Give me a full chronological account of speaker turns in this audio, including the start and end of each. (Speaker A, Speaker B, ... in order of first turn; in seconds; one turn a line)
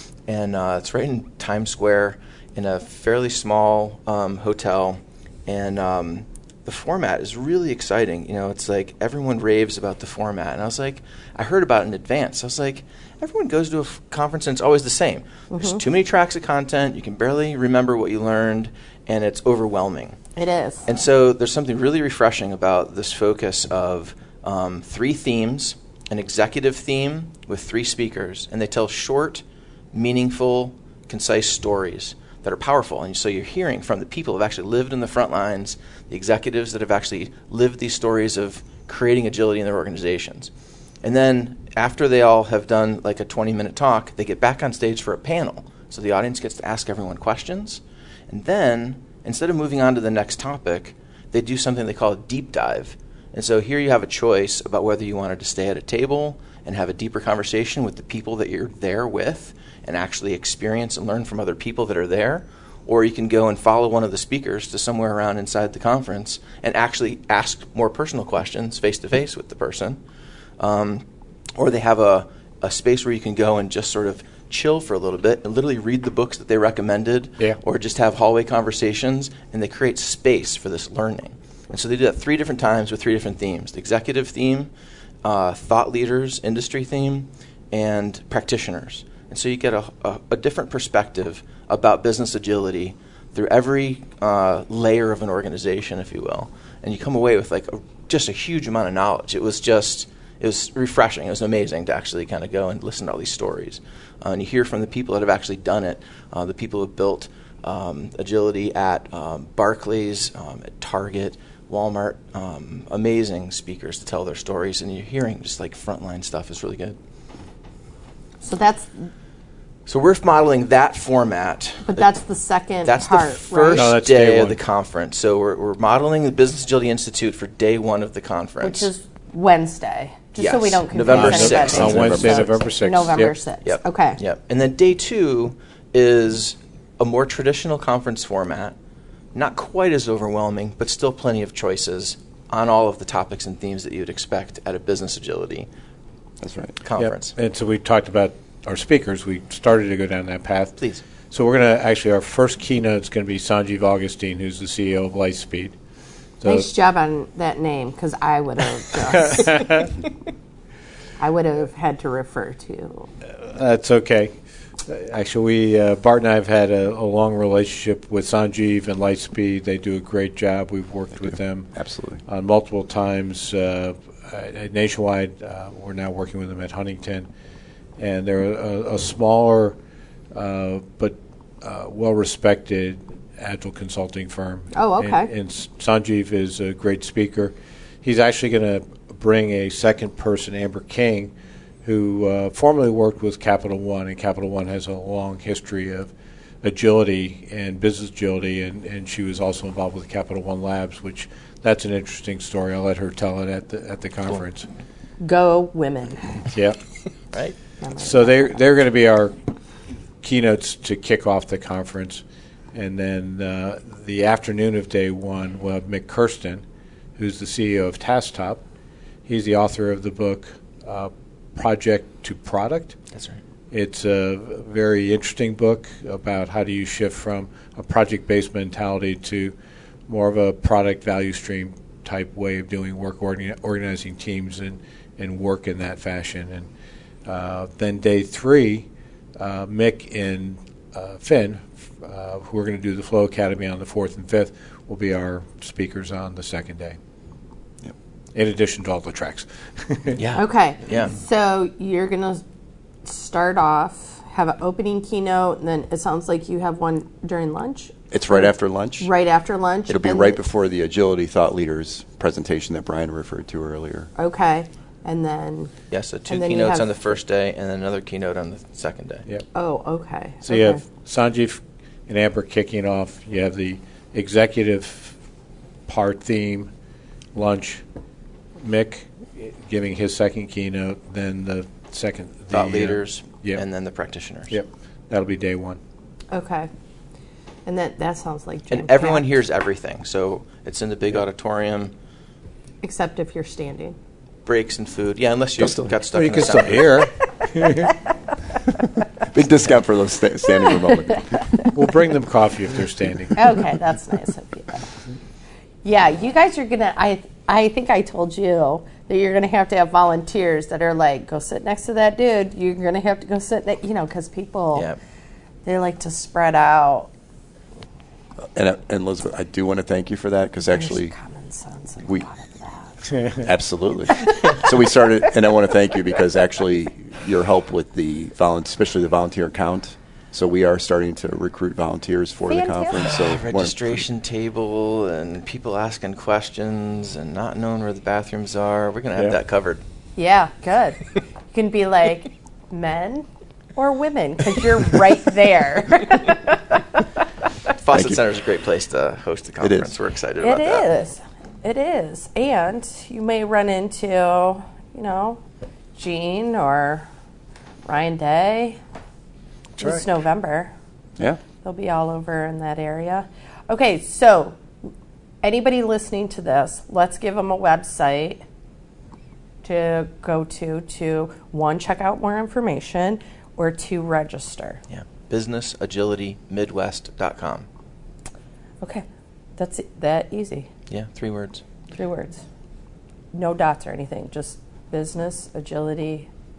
Speaker A: 0.3-20.2
Speaker B: 15.5-15.8
Speaker B: 20.4-20.9
Speaker A: 20.9-40.5
Speaker A: 41.0-70.0
Speaker A: 70.6-71.0
Speaker A: 71.6-84.7
Speaker A: 85.2-117.0
Speaker B: 118.4-119.1
Speaker A: 119.9-122.1
Speaker B: 121.8-123.9
Speaker A: 122.8-128.9
Speaker C: 123.7-124.6
Speaker B: 128.6-134.2
Speaker A: 130.4-132.2
Speaker C: 131.1-133.3
Speaker D: 131.5-132.5
Speaker A: 133.6-138.7
Speaker A: 139.3-145.7
Speaker D: 146.4-146.8
Speaker A: 146.8-147.3
Speaker C: 147.0-150.8
Speaker A: 150.8-151.0
Speaker C: 151.3-155.8
Speaker C: 156.4-156.7
Speaker B: 156.4-159.7
Speaker C: 159.0-159.9
Speaker B: 161.2-163.1
Speaker C: 163.4-171.7
Speaker D: 171.2-172.2
Speaker C: 172.3-177.3
Speaker C: 178.0-179.8
Speaker C: 180.3-191.3
Speaker B: 184.7-185.3
Speaker C: 191.8-196.1
Speaker C: 196.6-204.7
Speaker B: 205.2-206.4
Speaker C: 206.5-206.8
Speaker B: 207.8-208.6
Speaker C: 208.0-209.3
Speaker C: 210.2-216.6
Speaker C: 217.2-218.6
Speaker C: 219.2-223.0
Speaker A: 223.1-223.4
Speaker C: 223.7-229.5
Speaker C: 230.1-236.7
Speaker C: 237.2-247.0
Speaker C: 248.3-250.2
Speaker A: 250.2-251.1
Speaker B: 250.3-252.4
Speaker B: 253.0-260.4
Speaker D: 258.1-259.1
Speaker D: 259.9-264.1
Speaker B: 264.2-265.7
Speaker A: 265.9-269.2
Speaker B: 266.3-266.9
Speaker B: 269.5-270.8
Speaker C: 270.4-275.1
Speaker C: 275.9-276.7
Speaker C: 277.3-277.8
Speaker C: 278.6-283.6
Speaker A: 282.5-284.6
Speaker C: 284.5-285.8
Speaker B: 286.3-286.7
Speaker B: 287.6-289.3
Speaker A: 288.7-291.9
Speaker B: 292.8-293.9
Speaker A: 294.4-297.1
Speaker D: 295.6-295.9
Speaker C: 296.1-297.9
Speaker D: 299.3-301.5
Speaker C: 301.7-303.6
Speaker B: 303.3-304.8
Speaker B: 305.8-314.9
Speaker B: 315.6-317.1
Speaker D: 318.5-321.1
Speaker B: 320.7-323.1
Speaker D: 323.3-334.0
Speaker B: 332.5-333.1
Speaker A: 332.9-339.8
Speaker B: 340.2-341.0
Speaker B: 341.5-347.0
Speaker A: 347.8-350.9
Speaker D: 347.9-348.2
Speaker D: 349.6-349.9
Speaker B: 350.4-355.4
Speaker B: 355.9-357.1
Speaker B: 357.9-358.8
Speaker C: 359.8-360.0
Speaker B: 359.8-360.7
Speaker B: 361.6-364.6
Speaker B: 365.4-368.4
Speaker B: 369.6-374.8
Speaker A: 374.9-377.7
Speaker B: 379.6-380.7
Speaker A: 380.9-381.6
Speaker B: 381.9-382.4
Speaker B: 383.3-386.3